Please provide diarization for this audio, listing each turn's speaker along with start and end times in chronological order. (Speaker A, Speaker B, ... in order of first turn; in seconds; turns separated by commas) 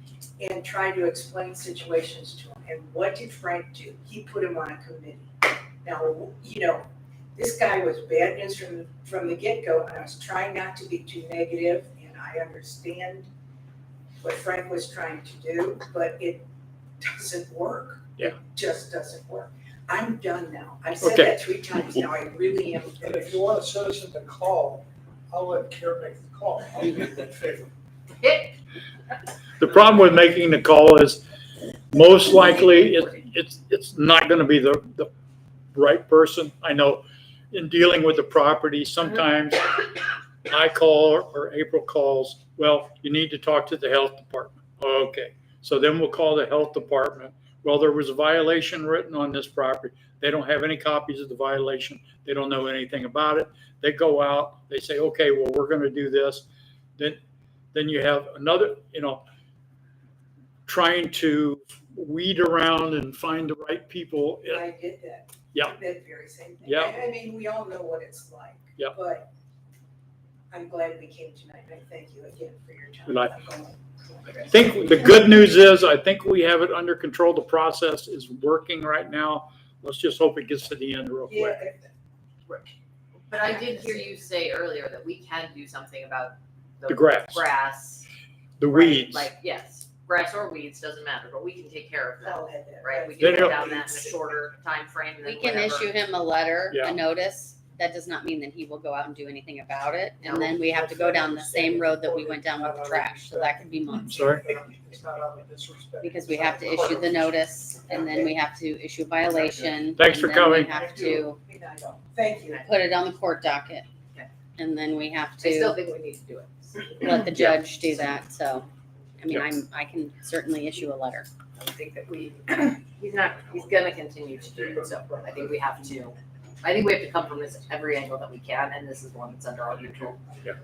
Speaker A: 0.4-5.3, Speaker A: 5.8-13.3, Speaker A: 14.2-16.5, Speaker A: 17.0-23.4, Speaker B: 21.0-21.4, Speaker C: 23.0-27.7, Speaker D: 28.2-28.5, Speaker B: 29.6-31.2, Speaker B: 31.9-35.1, Speaker B: 35.8-39.8, Speaker B: 40.5-56.5, Speaker B: 57.7-59.2, Speaker B: 60.7-64.7, Speaker A: 64.5-69.3, Speaker B: 66.6-66.9, Speaker A: 70.5-75.0, Speaker B: 73.1-73.3, Speaker B: 74.5-81.6, Speaker A: 81.3-81.9, Speaker D: 83.3-88.1, Speaker A: 83.3-84.1, Speaker B: 86.9-87.5, Speaker B: 88.6-89.3, Speaker D: 88.7-96.0, Speaker A: 92.2-94.3, Speaker B: 93.2-93.7, Speaker E: 95.2-104.4, Speaker B: 96.7-97.0, Speaker C: 100.7-108.3, Speaker B: 103.9-104.4, Speaker E: 106.0-111.4, Speaker B: 110.0-110.7, Speaker A: 110.7-112.7, Speaker E: 112.6-113.9, Speaker E: 114.6-115.8, Speaker D: 115.4-117.2, Speaker E: 117.0-118.7, Speaker E: 119.2-121.3, Speaker D: 121.6-130.2